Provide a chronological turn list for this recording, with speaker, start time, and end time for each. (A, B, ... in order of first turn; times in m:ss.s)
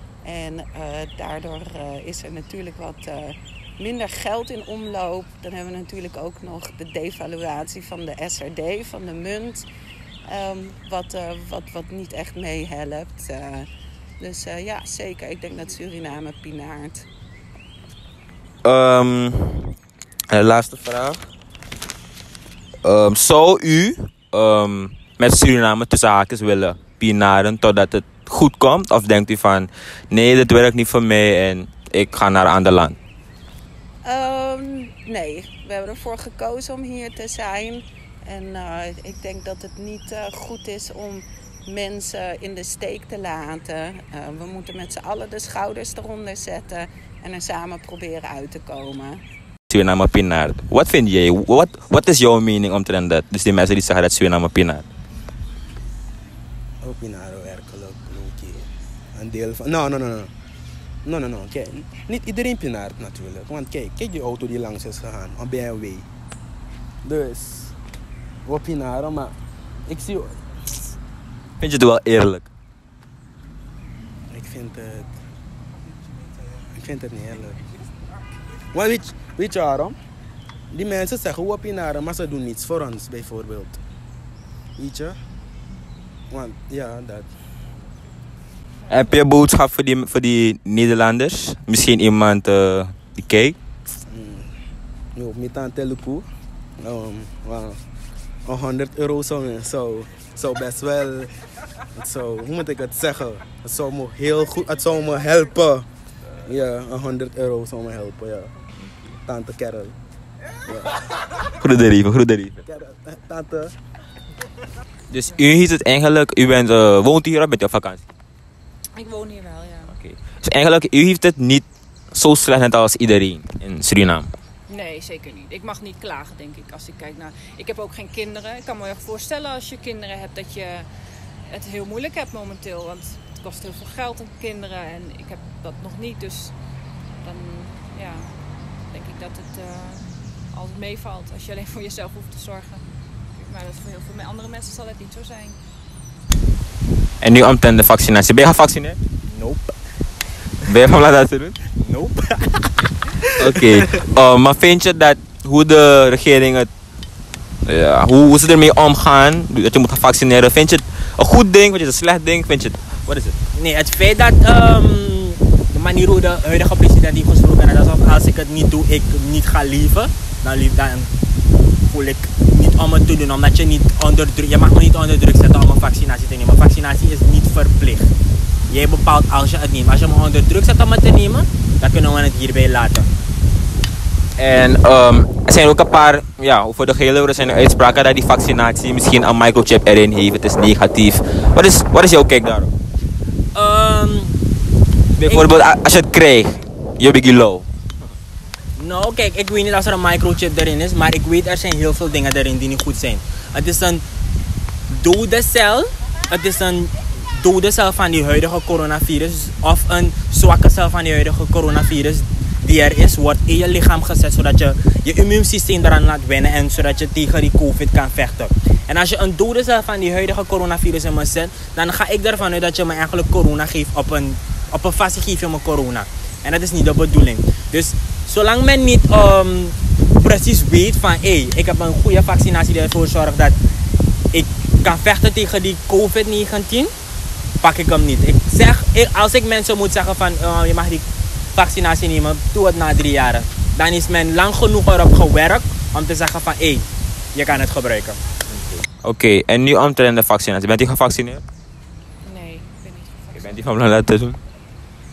0:00.2-0:09.6 A
0:10.3-0:13.7 A
0:14.2-0:17.0 A
0:18.6-0:19.7 B
0:20.3-0:21.2 B
0:22.8-0:33.0 B
0:34.0-0:49.2 A
0:49.7-0:54.9 B
0:56.8-1:00.3 C
1:01.0-1:06.1 C
1:07.0-1:07.8 C
1:08.4-1:09.4 C
1:09.9-1:10.5 C
1:11.6-1:12.5 B
1:14.3-1:15.1 C
1:15.9-1:17.6 C
1:18.7-1:20.0 C
1:20.7-1:23.8 C
1:24.8-1:25.2 C
1:26.3-1:27.3 C
1:28.9-1:33.5 B
1:34.1-1:34.5 C
1:35.1-1:36.3 C
1:36.8-1:37.8 C
1:38.4-1:41.3 C
1:41.9-1:45.9 C
1:46.4-1:48.5 C
1:49.2-1:50.0 C
1:51.6-1:52.6 B
1:52.6-1:53.8 C
1:55.1-1:58.0 B
1:59.0-1:59.9 D
1:59.9-2:04.3 B
2:04.7-2:10.9 D
2:11.5-2:16.6 D
2:17.2-2:22.8 D
2:23.4-2:25.6 D
2:27.2-2:29.0 B
2:29.3-2:29.7 E
2:30.7-2:31.6 B
2:31.8-2:33.8 E
2:33.4-2:36.7 B
2:37.6-2:43.4 B
2:43.6-2:51.1 E
2:51.9-2:58.1 E
2:58.7-3:03.1 E
3:04.4-3:12.7 B
3:13.5-3:14.4 E
3:15.2-3:17.7 B
3:15.3-3:15.7 E
3:18.8-3:24.0 E
3:24.9-3:53.5 E
3:54.3-3:56.9 E
3:57.6-4:08.2 E
4:08.5-4:11.4 B
4:12.2-4:13.6 D
4:13.3-4:14.4 B